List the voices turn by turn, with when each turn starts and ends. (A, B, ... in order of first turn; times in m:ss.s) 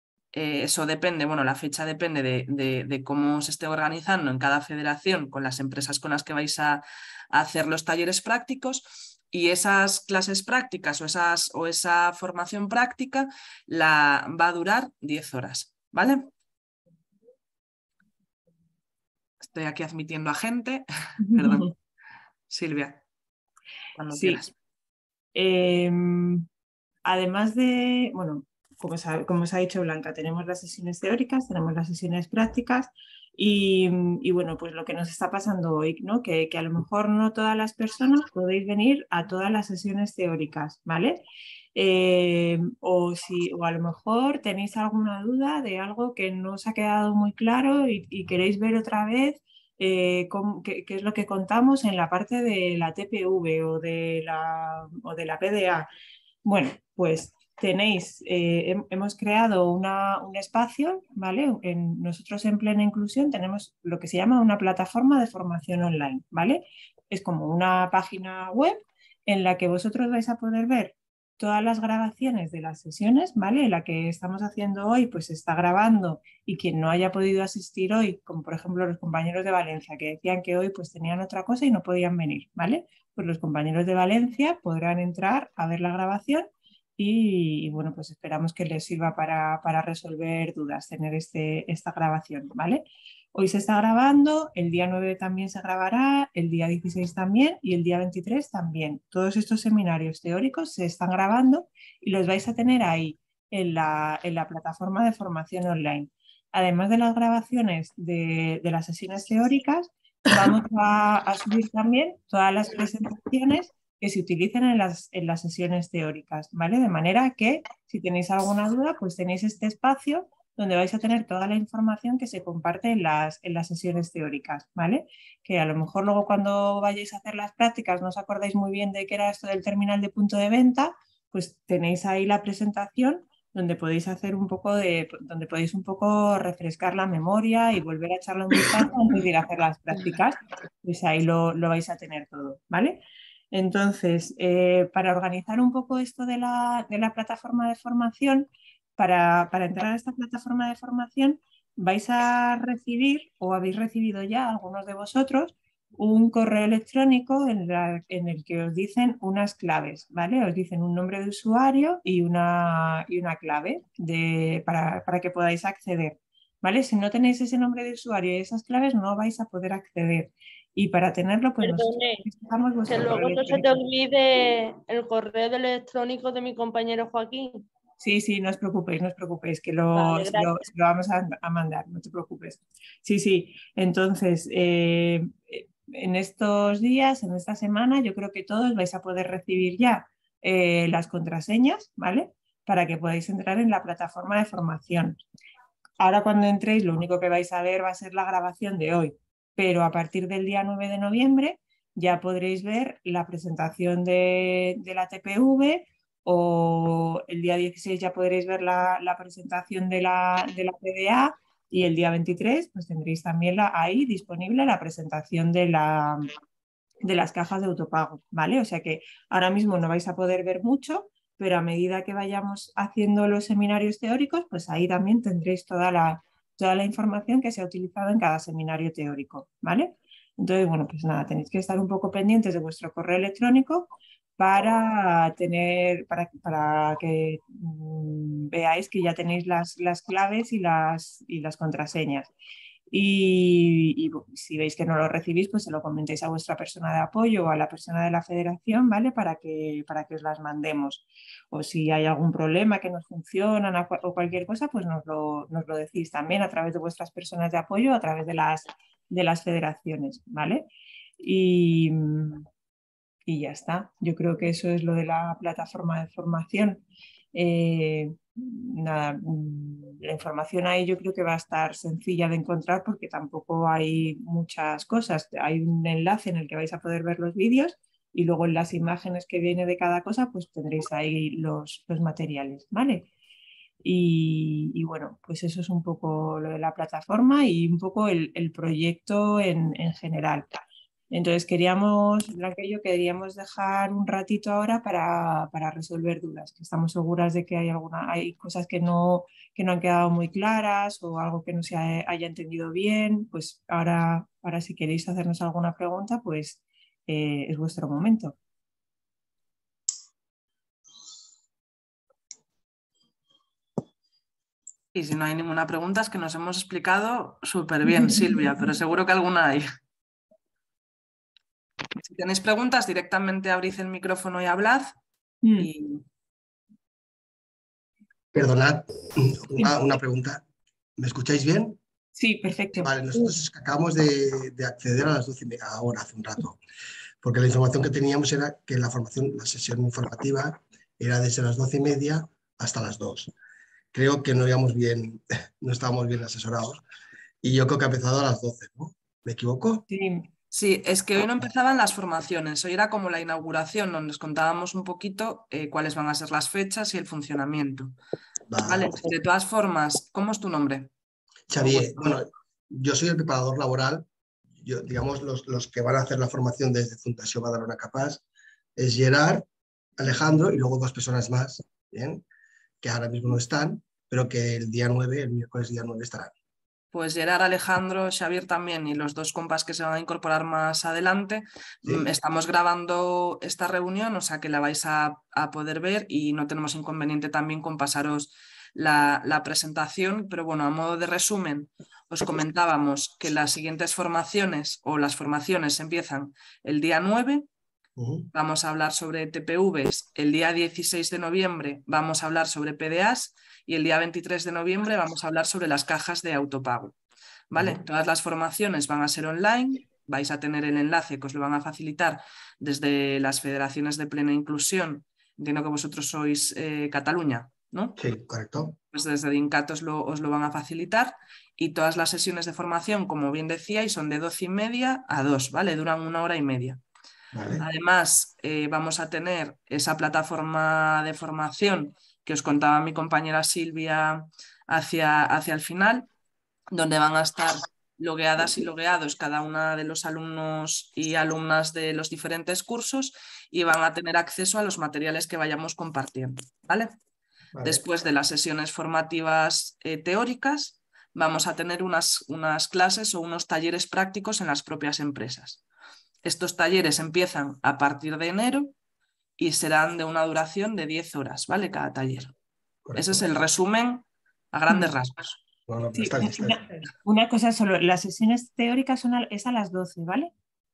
0:00.3-0:16.3 A
0:19.4-0:21.7 A
0:21.2-0:21.7 B
0:22.5-0:23.0 A
0:24.0-0:24.5 A
0:24.1-0:24.4 B
0:25.3-0:26.4 B
0:27.0-0:41.2 B
0:41.7-0:55.9 B
0:56.4-2:23.0 B
2:23.5-2:53.8 B
2:51.6-2:52.2 C
2:52.9-2:57.6 C
2:58.0-3:15.2 B
2:59.9-3:00.6 C
3:16.0-3:36.3 B
3:37.0-4:02.3 B
4:02.9-4:20.7 B
4:21.2-4:22.4 B
4:23.2-4:26.8 B
4:27.3-4:43.1 B
4:43.8-5:08.4 B
5:14.9-5:19.7 A
5:17.8-5:18.4 B
5:22.0-5:24.9 A
5:25.4-5:25.7 B
5:25.6-5:26.0 A
5:28.3-5:30.4 D
5:31.0-5:31.8 D
5:32.2-5:33.3 B
5:32.8-5:36.6 D
5:37.2-5:43.3 D
5:43.9-5:46.8 D
5:47.4-5:49.8 D
5:49.9-5:50.3 B
5:50.5-5:57.9 A
5:58.5-5:59.0 D
5:58.6-6:00.9 A
6:01.5-6:04.1 D
6:01.6-6:02.0 A
6:04.6-6:08.2 D
6:08.8-6:09.4 D
6:10.0-6:12.2 D
6:12.8-6:16.3 D
6:16.9-6:37.5 A
6:38.0-6:38.3 D
6:38.3-6:47.0 A
6:47.5-6:58.0 A
6:47.5-6:47.8 D
6:58.0-6:58.7 D
6:58.9-7:06.8 A
7:07.3-7:07.6 D
7:07.6-7:16.1 A
7:16.7-7:26.9 A
7:27.5-7:27.8 D
7:27.6-7:35.6 A
7:36.2-7:38.7 A
7:39.4-7:42.3 A
7:42.8-7:43.2 D
7:42.9-7:45.4 A
7:45.7-7:46.6 D
7:46.0-7:50.3 B